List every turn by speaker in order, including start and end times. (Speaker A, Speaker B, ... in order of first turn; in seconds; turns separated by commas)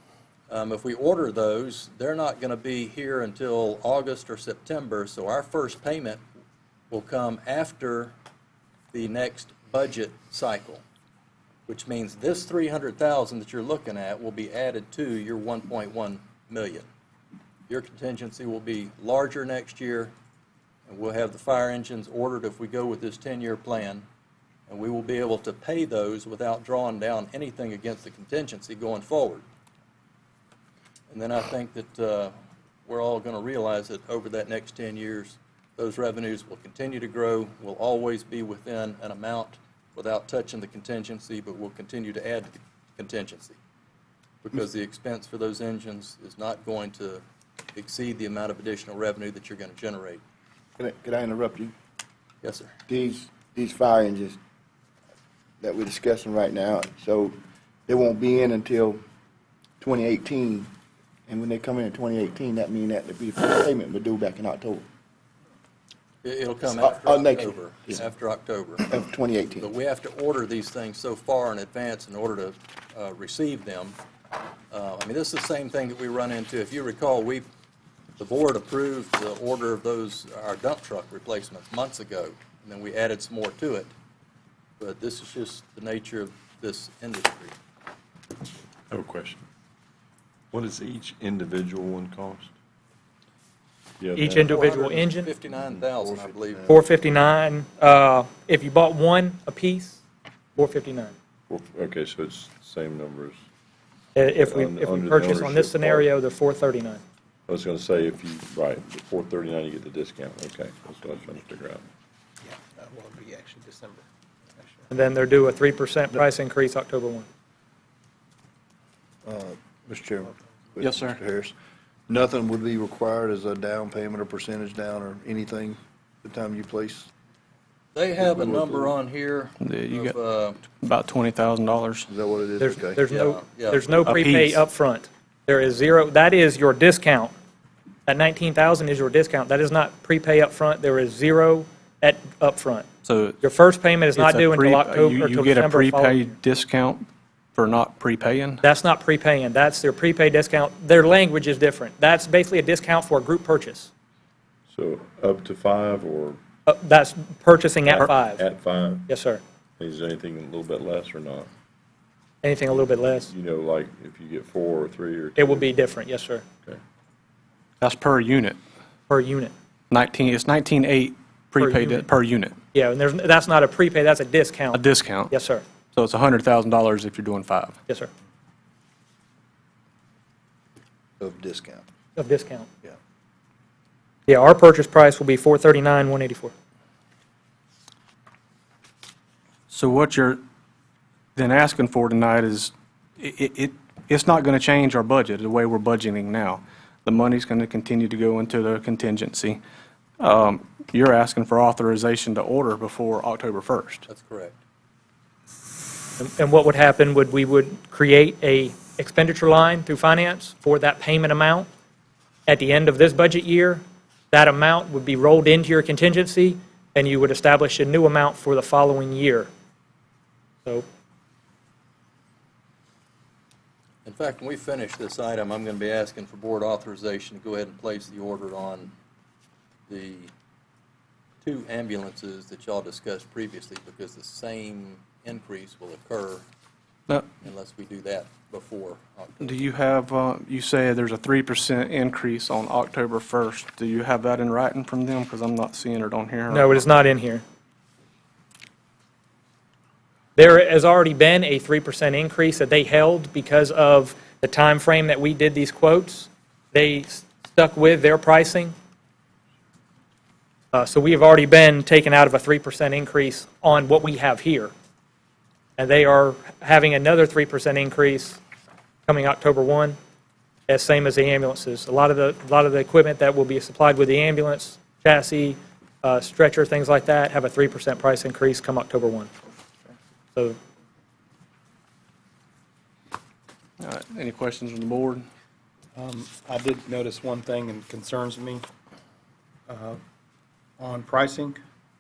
Speaker A: 0.5-6.2, Speaker A: 6.9-8.1, Speaker A: 8.9-10.8, Speaker A: 11.7-16.9, Speaker A: 17.7-20.1, Speaker A: 20.9-24.1, Speaker A: 24.7-29.4, Speaker A: 31.1-32.3, Speaker A: 32.9-43.6, Speaker A: 44.4-47.2, Speaker A: 47.8-50.2, Speaker B: 50.8-51.7, Speaker A: 52.4-52.7, Speaker B: 52.9-54.4, Speaker B: 55.6-59.0, Speaker B: 59.8-60.7, Speaker B: 61.3-64.8, Speaker A: 66.2-68.9, Speaker B: 66.7-68.0, Speaker B: 68.8-69.7, Speaker A: 69.6-74.0, Speaker A: 74.7-77.5, Speaker A: 78.2-83.9, Speaker A: 84.8-87.6, Speaker C: 88.9-89.5, Speaker C: 90.5-92.5, Speaker C: 94.0-94.8, Speaker D: 94.2-95.4, Speaker A: 94.5-96.9, Speaker E: 95.6-96.9, Speaker D: 96.7-100.0, Speaker D: 100.6-101.1, Speaker C: 101.5-103.4, Speaker D: 104.2-107.0, Speaker C: 104.3-106.1, Speaker C: 107.5-111.9, Speaker F: 112.4-114.1, Speaker F: 114.6-115.1, Speaker D: 114.9-117.3, Speaker E: 119.2-121.5, Speaker F: 120.3-120.8, Speaker G: 120.8-121.2, Speaker E: 122.1-127.1, Speaker A: 128.0-130.6, Speaker E: 128.2-128.9, Speaker G: 129.6-130.1, Speaker G: 130.8-132.1, Speaker E: 132.1-133.0, Speaker D: 132.6-137.3, Speaker A: 133.1-134.1, Speaker G: 134.0-134.6, Speaker D: 138.1-142.9, Speaker G: 143.0-143.4, Speaker D: 143.4-146.3, Speaker G: 144.1-148.6, Speaker D: 148.6-153.9, Speaker C: 154.7-156.4, Speaker D: 156.7-158.5, Speaker C: 157.9-159.1, Speaker D: 159.1-159.4, Speaker C: 159.8-161.5, Speaker D: 162.4-163.3, Speaker C: 162.7-165.7, Speaker D: 165.4-166.4, Speaker G: 167.8-168.6, Speaker D: 169.1-169.5, Speaker G: 169.9-172.6, Speaker D: 171.6-172.1, Speaker D: 172.7-175.6, Speaker G: 174.7-175.3, Speaker G: 175.9-177.8, Speaker E: 181.2-181.9, Speaker D: 182.2-182.7, Speaker D: 184.3-186.5, Speaker G: 189.7-190.4, Speaker G: 191.4-199.6, Speaker G: 200.2-204.1, Speaker A: 204.1-204.6, Speaker D: 206.2-211.7, Speaker D: 212.5-219.5, Speaker A: 224.1-228.9, Speaker A: 229.9-230.3, Speaker A: 231.4-236.4, Speaker A: 237.4-239.6, Speaker G: 239.4-246.9, Speaker D: 246.5-247.4, Speaker D: 250.4-258.7, Speaker D: 260.7-264.7, Speaker D: 265.8-268.4, Speaker D: 269.1-270.0, Speaker D: 270.7-279.3, Speaker G: 283.8-285.3, Speaker F: 285.9-288.7, Speaker F: 289.7-290.0, Speaker F: 290.8-291.6